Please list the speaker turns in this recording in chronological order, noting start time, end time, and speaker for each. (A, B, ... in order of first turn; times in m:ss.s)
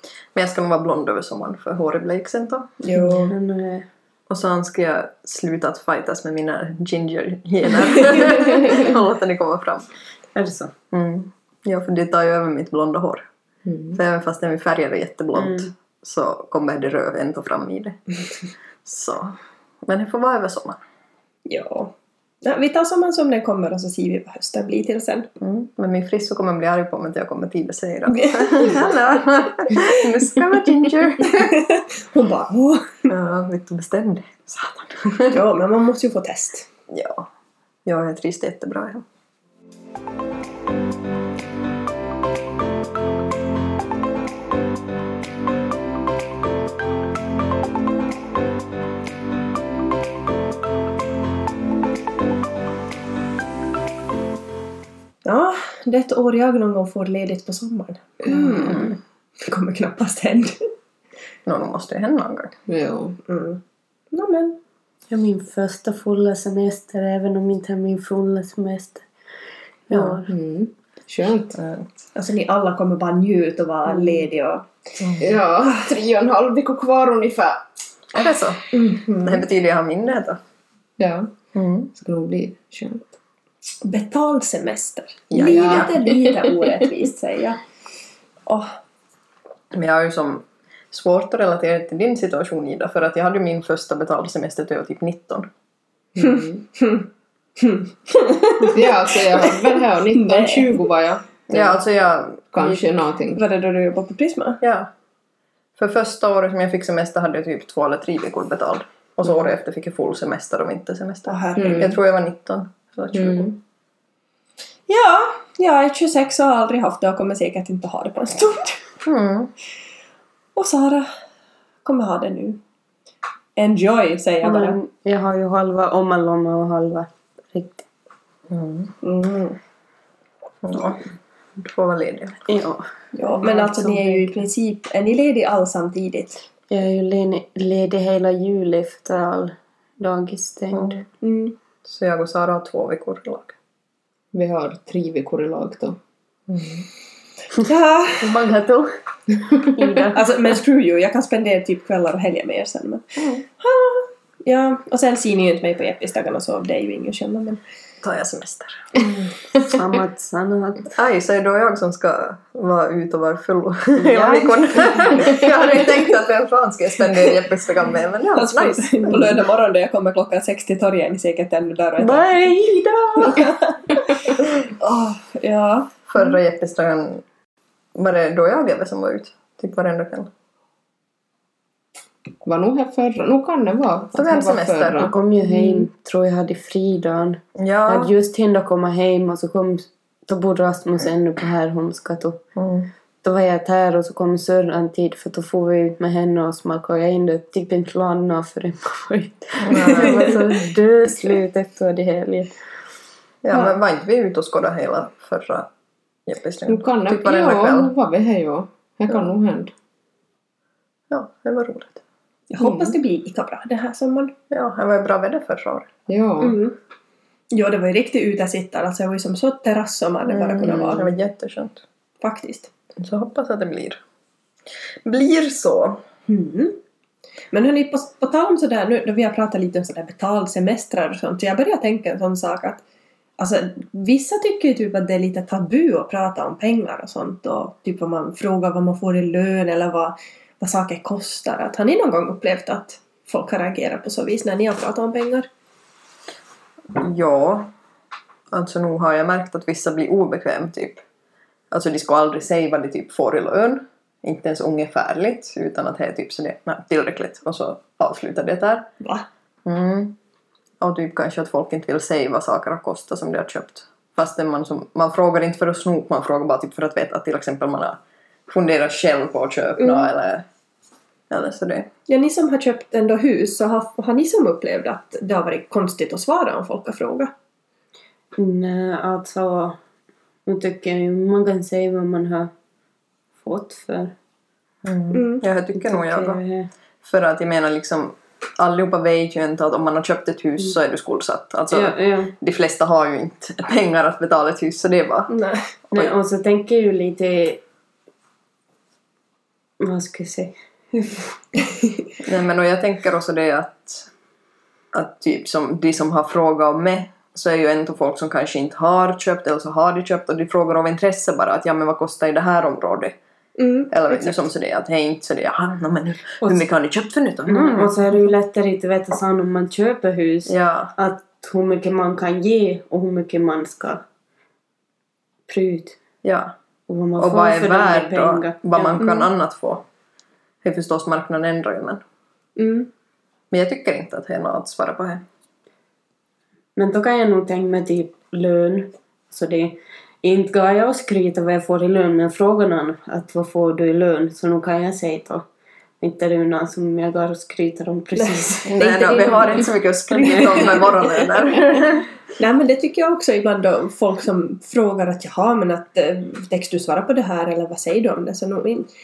0:00.3-0:02.7 A
0:02.8-0:03.3 B
0:03.0-0:03.9 C
0:04.3-0:09.9 A
0:10.4-0:10.7 C
0:10.9-0:13.3 A
0:13.7-0:14.0 D
0:13.9-0:18.0 A
0:15.4-0:15.7 C
0:18.8-0:20.8 A
0:21.5-0:25.3 B
0:25.4-0:31.6 A
0:28.1-0:28.8 B
0:31.2-0:33.0 B
0:33.1-0:35.4 A
0:35.3-0:36.7 B
0:36.9-0:37.3 A
0:37.8-0:39.0 A
0:55.2-0:58.9 B
0:58.3-0:58.9 C
0:58.7-0:59.0 A
0:59.4-1:00.7 B
1:01.5-1:02.5 A
1:02.7-1:03.2 D
1:03.3-1:03.6 B
1:04.1-1:04.6 B
1:05.1-1:09.1 C
1:09.9-1:10.3 C
1:09.9-1:10.2 A
1:10.3-1:11.6 D
1:11.5-1:11.9 A
1:12.2-1:14.7 B
1:15.0-1:15.3 A
1:15.2-1:17.7 D
1:18.1-1:20.4 A
1:18.7-1:19.0 B
1:21.0-1:21.3 D
1:21.5-1:21.9 A
1:21.9-1:23.1 D
1:23.8-1:27.6 B
1:25.3-1:25.9 A
1:25.4-1:26.3 D
1:28.5-1:28.8 B
1:29.7-1:35.5 A
1:36.2-1:36.6 D
1:36.2-1:37.1 B
1:37.6-1:40.8 B
1:38.6-1:41.8 D
1:41.5-1:42.9 A
1:42.5-1:43.4 D
1:43.4-1:44.6 B
1:44.6-1:44.9 A
1:45.8-1:53.5 A
1:51.3-1:52.0 B
1:51.6-1:52.0 D
1:53.1-1:53.6 D
1:54.9-1:58.9 B
1:59.0-1:59.5 A
2:00.6-2:01.1 B
2:01.8-2:02.6 B
2:03.6-2:04.8 B
2:04.4-2:07.8 C
2:08.5-2:08.9 A
2:09.0-2:09.6 B
2:10.6-2:11.0 A
2:11.6-2:12.5 A
2:12.5-2:14.4 C
2:13.2-2:16.4 B
2:16.7-2:21.0 C
2:20.7-2:21.0 A
2:21.2-2:21.6 B
2:21.8-2:23.6 A
2:24.3-2:26.0 D
2:26.5-2:26.8 A
2:27.6-2:28.3 B
2:28.2-2:28.9 C
2:29.6-2:30.2 C
2:30.1-2:37.6 B
2:38.0-2:39.1 A
2:39.6-2:40.9 C
2:41.0-2:49.3 A
2:44.0-2:45.2 C
2:48.3-2:52.4 B
2:52.0-2:53.6 C
2:53.2-2:56.4 B
2:56.1-2:57.2 A
2:58.0-3:00.3 A
3:02.4-3:05.1 D
3:04.2-3:05.1 A
3:05.0-3:12.4 C
3:07.6-3:08.1 A
3:12.6-3:12.9 A
3:13.2-3:22.5 C
3:19.6-3:20.8 A
3:23.4-3:25.7 A
3:26.3-3:27.9 A
3:26.7-3:29.7 D
3:31.1-3:32.0 A
3:32.5-3:34.3 B
3:32.6-3:33.0 D
3:34.5-3:35.9 A
3:36.1-3:36.6 D
3:36.4-3:36.8 B
3:37.5-3:41.1 B
3:40.3-3:41.8 A
3:40.7-3:41.0 D
3:42.2-3:42.7 B
3:43.0-3:44.0 A
3:45.0-3:46.0 A
3:46.3-3:46.8 B
3:47.5-3:52.8 B
3:53.4-4:05.5 B
4:07.0-4:07.7 A
4:08.5-4:11.0 A
4:11.7-4:18.9 A
4:19.0-4:19.3 B
4:19.6-4:20.2 A
4:20.8-4:30.5 A
4:29.8-4:30.1 B
4:31.3-4:31.9 A
4:32.1-4:37.3 B
4:38.4-4:39.8 C
4:40.5-4:42.5 C
4:43.4-4:44.2 C
4:44.8-4:46.4 A
4:45.1-4:45.4 B
4:45.8-4:46.7 C
4:47.0-4:55.3 A
4:51.7-4:52.3 C
4:55.3-4:55.6 B
4:55.9-4:57.6 C
4:59.8-5:01.2 C
5:02.2-5:04.1 A
5:04.9-5:13.2 A
5:13.6-5:14.4 B
5:13.9-5:18.0 A
5:17.5-5:24.0 C
5:20.5-5:20.9 A
5:25.5-5:26.0 C
5:26.2-5:26.5 A
5:26.9-5:29.0 C
5:27.2-5:29.8 A
5:29.0-5:29.3 B
5:30.6-5:32.0 A
5:32.6-5:32.9 B
5:33.5-5:35.2 A
5:36.8-5:45.5 C
5:46.0-5:48.8 C
5:48.2-5:51.4 B
5:48.8-5:52.1 A
5:52.4-5:58.9 B